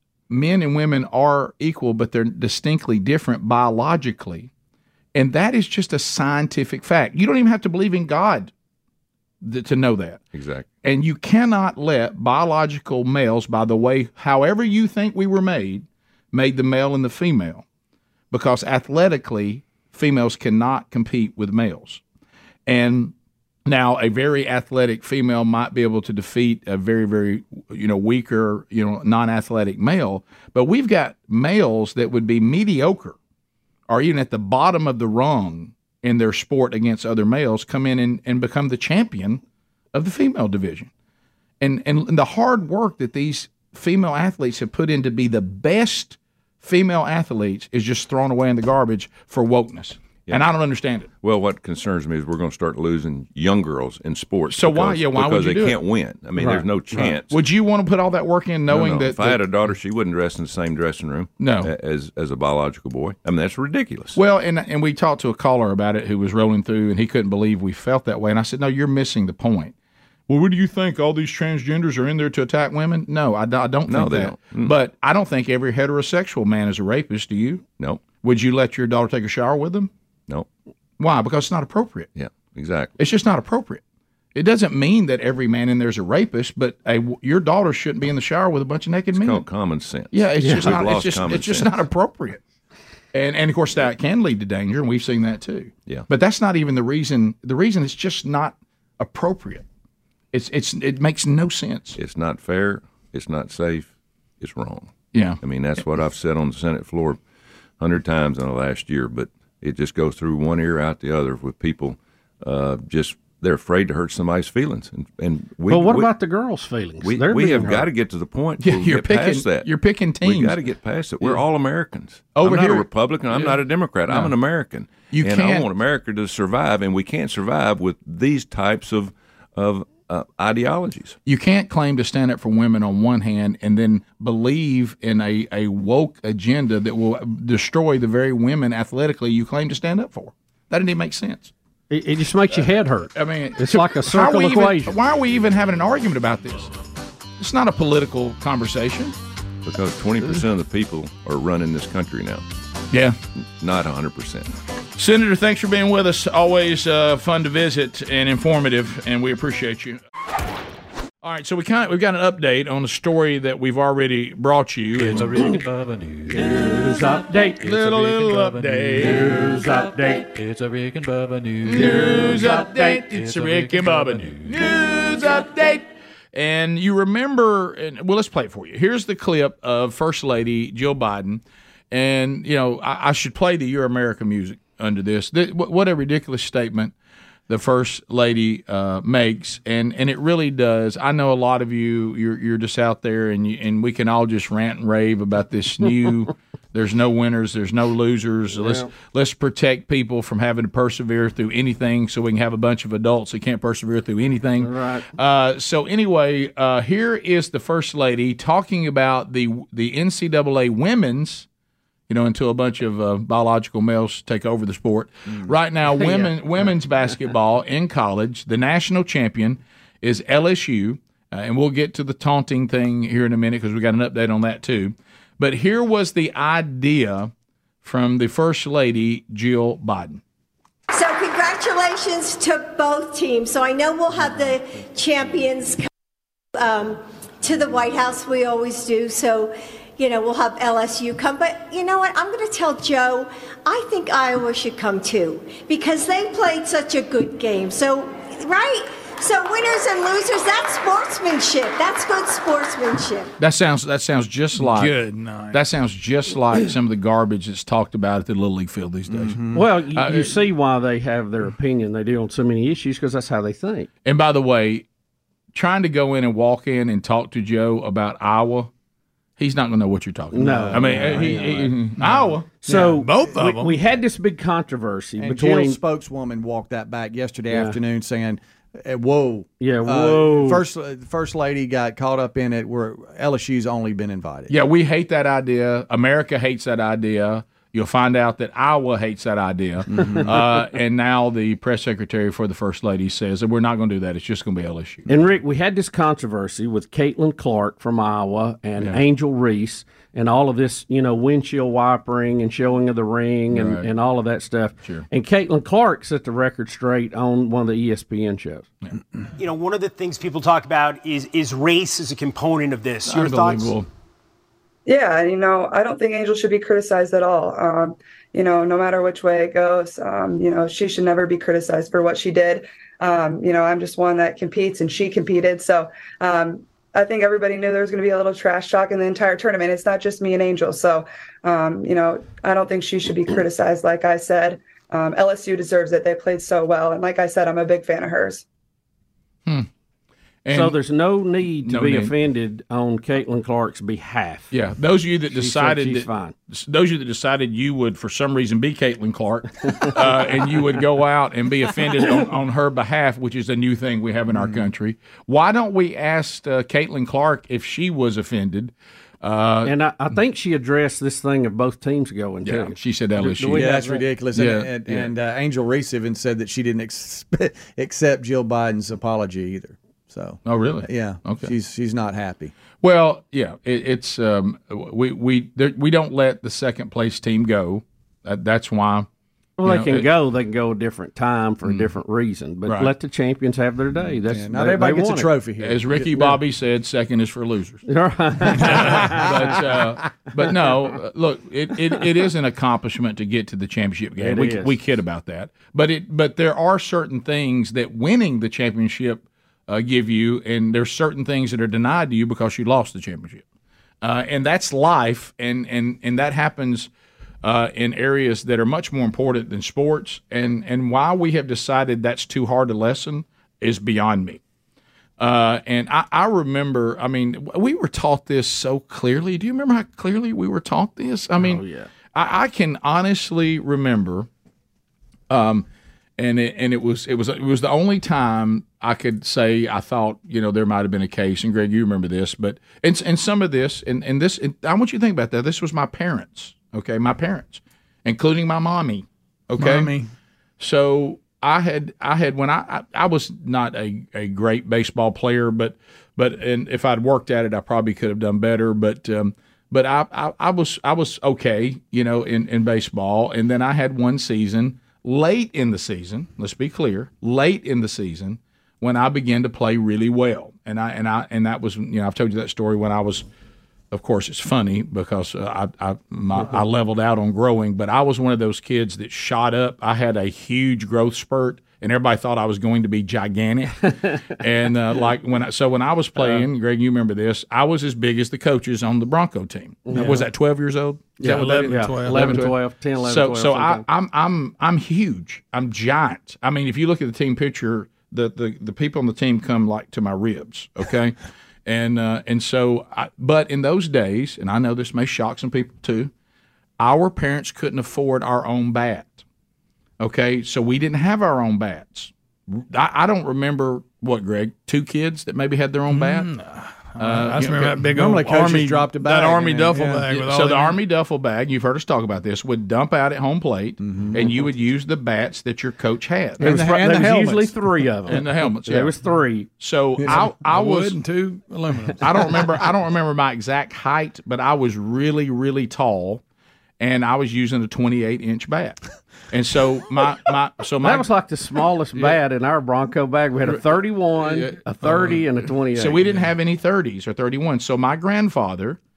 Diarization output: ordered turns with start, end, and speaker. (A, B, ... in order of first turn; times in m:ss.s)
0:00.3-0:04.5 A
0:05.1-0:08.5 A
0:09.4-0:10.2 A
0:10.3-0:10.7 B
0:10.8-0:17.6 A
0:18.3-0:22.0 A
0:22.7-0:23.1 A
0:23.6-0:33.2 A
0:33.9-0:39.4 A
0:39.9-0:40.9 A
0:41.6-0:51.1 A
0:51.2-0:57.4 B
0:54.5-0:55.8 A
0:56.4-0:57.0 C
0:56.9-0:59.7 A
0:58.7-1:04.2 B
1:01.4-1:01.7 A
1:04.1-1:09.7 A
1:10.3-1:19.9 A
1:13.9-1:14.8 B
1:17.8-1:18.1 B
1:21.0-1:22.1 A
1:22.1-1:22.9 B
1:23.0-1:23.8 A
1:24.3-1:29.5 A
1:29.1-1:31.8 B
1:30.1-1:32.4 A
1:30.4-1:30.8 C
1:33.1-1:39.6 A
1:40.3-1:42.0 A
1:42.0-1:47.2 B
1:45.1-1:45.4 A
1:47.8-1:56.1 B
1:55.7-1:57.9 C
1:57.0-1:59.7 B
1:58.6-2:00.6 A
2:00.2-2:11.2 B
2:02.3-2:04.4 A
2:05.0-2:05.7 A
2:11.2-2:21.5 A
2:21.9-2:25.0 C
2:23.1-2:26.7 A
2:27.4-2:29.1 A
2:29.6-2:32.4 B
2:32.9-2:33.2 A
2:33.5-2:34.5 B
2:35.0-2:40.0 A
2:41.2-2:45.6 A
2:44.9-2:54.7 D
2:46.5-2:47.6 C
2:47.6-2:49.7 A
2:49.5-2:50.2 C
2:51.6-3:06.9 A
2:51.8-2:52.6 C
3:07.5-3:31.4 A
3:18.5-3:18.9 C
3:24.6-3:25.0 C
3:32.1-3:47.3 A
3:36.0-3:36.3 C
3:47.8-3:50.2 A
3:50.9-3:55.9 E
3:56.5-4:13.3 E
4:13.4-4:15.0 A
4:14.6-4:15.6 F
4:15.5-4:19.4 A
4:19.1-4:19.7 G
4:19.5-4:23.9 C
4:19.9-4:20.4 A
4:24.0-4:24.8 A
4:25.5-4:28.7 A
4:29.4-4:32.5 A
4:30.3-4:31.7 C
4:30.4-4:31.7 G
4:32.6-4:35.8 C
4:32.7-4:33.7 F
4:35.2-4:44.5 G
4:37.5-4:37.8 C
4:39.6-4:40.6 C
4:44.5-4:55.0 A
4:49.9-4:50.3 G
4:55.0-5:08.7 C
5:03.5-5:03.9 A
5:09.4-5:13.8 H
5:13.0-5:13.9 A
5:14.9-5:38.4 I
5:40.4-5:40.8 A
5:40.5-5:44.5 C
5:41.6-5:42.1 A
5:44.5-5:59.8 A
5:45.3-5:46.3 C
5:54.3-5:54.7 G
5:59.6-6:04.1 C
6:02.4-6:03.7 A
6:03.5-6:12.5 G
6:04.3-6:05.1 A
6:10.4-6:11.5 A
6:12.8-6:19.1 A
6:19.6-6:25.3 C
6:19.6-6:20.1 A
6:21.6-6:21.9 A
6:22.6-6:22.9 A
6:24.2-6:26.4 G
6:25.6-6:27.8 A
6:27.9-6:29.6 C
6:28.6-6:43.4 A
6:34.2-6:34.7 C
6:44.0-6:46.9 A
6:47.4-6:54.4 A
6:55.2-7:01.6 A
7:01.4-7:01.9 C
7:02.1-7:04.3 A
7:05.3-7:05.6 A
7:06.2-7:19.9 A
7:19.6-7:20.1 F
7:20.6-7:43.2 A
7:43.9-8:11.1 A
7:56.2-7:56.5 C
7:59.9-8:00.3 C
8:00.0-8:00.2 F
8:01.2-8:02.5 F
8:01.3-8:03.8 C
8:11.6-8:16.1 A
8:16.8-8:19.2 A
8:20.0-8:26.3 A
8:25.9-8:30.8 F
8:27.0-8:27.8 A
8:27.9-8:30.1 G
8:30.1-8:36.6 A
8:33.8-8:34.4 G
8:36.4-8:37.6 G
8:36.4-8:39.5 C
8:38.1-8:38.9 A
8:39.6-8:41.0 A
8:40.1-8:42.3 F
8:42.0-8:46.2 A
8:46.8-8:51.1 A
8:50.8-8:56.0 C
8:54.2-8:58.8 A